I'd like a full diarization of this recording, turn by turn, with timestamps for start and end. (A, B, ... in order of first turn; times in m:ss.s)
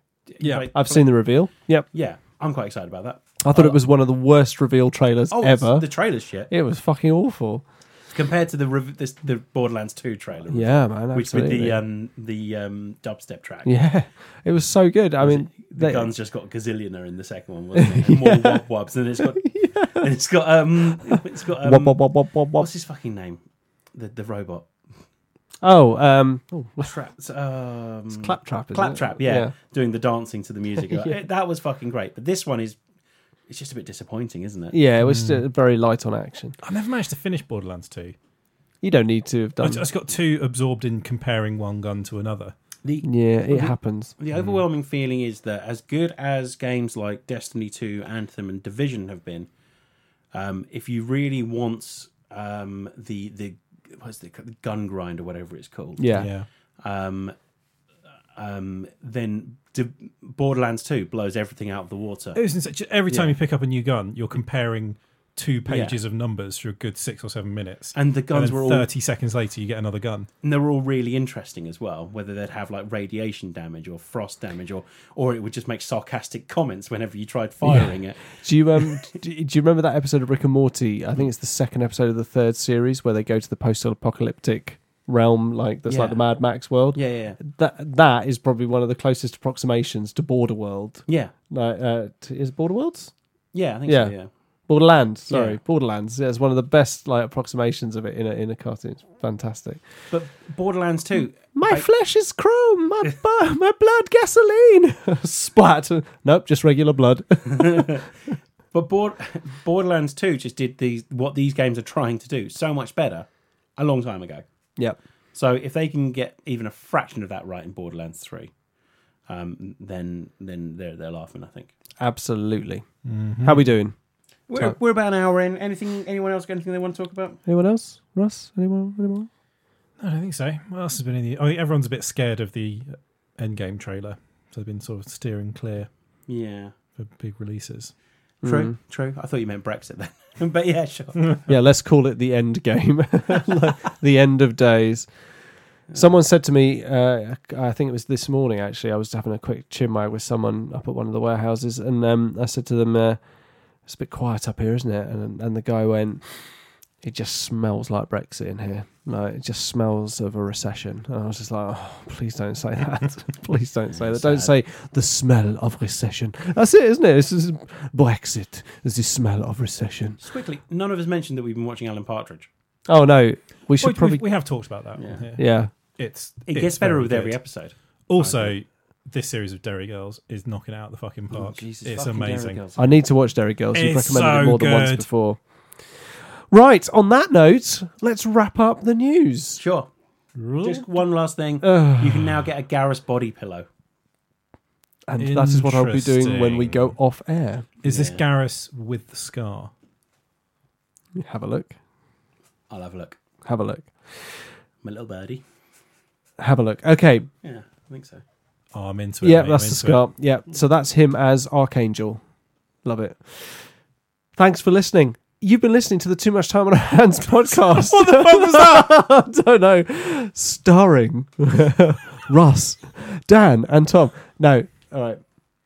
0:00.3-0:01.2 A
0:00.4-0:00.7 B
0:00.7-0:01.8 C
0:01.9-0:03.8 A
0:03.4-0:05.9 C
0:05.3-0:06.5 A
0:06.5-0:07.6 C
0:08.1-0:13.7 A
0:10.5-0:11.8 C
0:13.6-0:16.1 C
0:15.2-0:22.0 A
0:17.7-0:18.6 C
0:19.2-0:20.1 C
0:21.0-0:22.7 C
0:22.5-0:23.4 A
0:23.9-0:24.7 A
0:25.6-0:26.9 C
0:26.8-0:32.8 A
0:28.1-0:29.5 C
0:30.8-0:31.2 C
0:33.5-0:34.8 A
0:34.7-0:36.6 C
0:35.0-0:35.4 B
0:36.6-0:38.2 B
0:38.8-0:39.9 C
0:39.6-0:42.5 B
0:42.8-0:49.5 A
0:43.0-0:44.1 C
0:44.3-0:44.6 B
0:50.3-0:56.3 A
0:56.0-0:56.3 C
0:56.1-0:56.5 B
0:56.8-0:57.3 A
0:58.3-1:02.4 A
1:02.3-1:10.3 B
1:03.1-1:03.4 A
1:05.7-1:06.0 A
1:07.9-1:08.9 A
1:10.4-1:18.8 A
1:17.6-1:33.1 C
1:25.9-1:26.2 A
1:26.9-1:27.4 A
1:31.1-1:31.3 A
1:33.5-1:34.3 A
1:33.8-1:34.1 C
1:34.7-1:39.8 C
1:35.3-1:35.6 A
1:40.1-1:41.8 A
1:41.4-1:48.0 C
1:47.5-1:48.1 A
1:48.7-1:54.4 A
1:55.3-1:58.5 A
1:59.3-2:01.7 A
2:02.0-2:02.8 C
2:03.0-2:03.7 B
2:03.4-2:03.9 C
2:04.5-2:07.4 A
2:07.4-2:09.3 C
2:10.0-2:15.9 B
2:16.3-2:16.7 A
2:17.0-2:17.9 B
2:18.4-2:18.8 C
2:18.4-2:21.4 A
2:21.5-2:25.1 C
2:25.9-2:33.2 C
2:33.8-2:36.4 C
2:37.0-2:50.2 C
2:44.0-2:44.5 A
2:50.2-2:52.5 A
2:52.9-2:54.2 C
2:53.8-2:55.4 B
2:55.0-2:55.3 A
2:55.4-2:55.7 C
2:56.0-2:57.4 B
2:56.5-2:58.5 A
2:58.1-3:02.6 B
3:01.3-3:03.0 A
3:02.8-3:05.4 C
3:03.7-3:05.0 B
3:05.9-3:09.6 C
3:09.6-3:09.9 A
3:10.4-3:10.9 B
3:10.6-3:13.7 A
3:11.6-3:12.3 C
3:15.1-3:17.7 C
3:15.2-3:16.9 B
3:17.8-3:19.7 B
3:17.8-3:18.2 A
3:21.2-3:21.8 C
3:22.7-3:23.2 A
3:23.4-3:24.3 C
3:24.8-3:25.4 A
3:26.4-3:27.3 C
3:27.4-3:28.2 A
3:28.7-3:30.0 B
3:29.2-3:32.2 C
3:32.8-3:33.7 C
3:34.4-3:45.2 C
3:37.5-3:38.9 B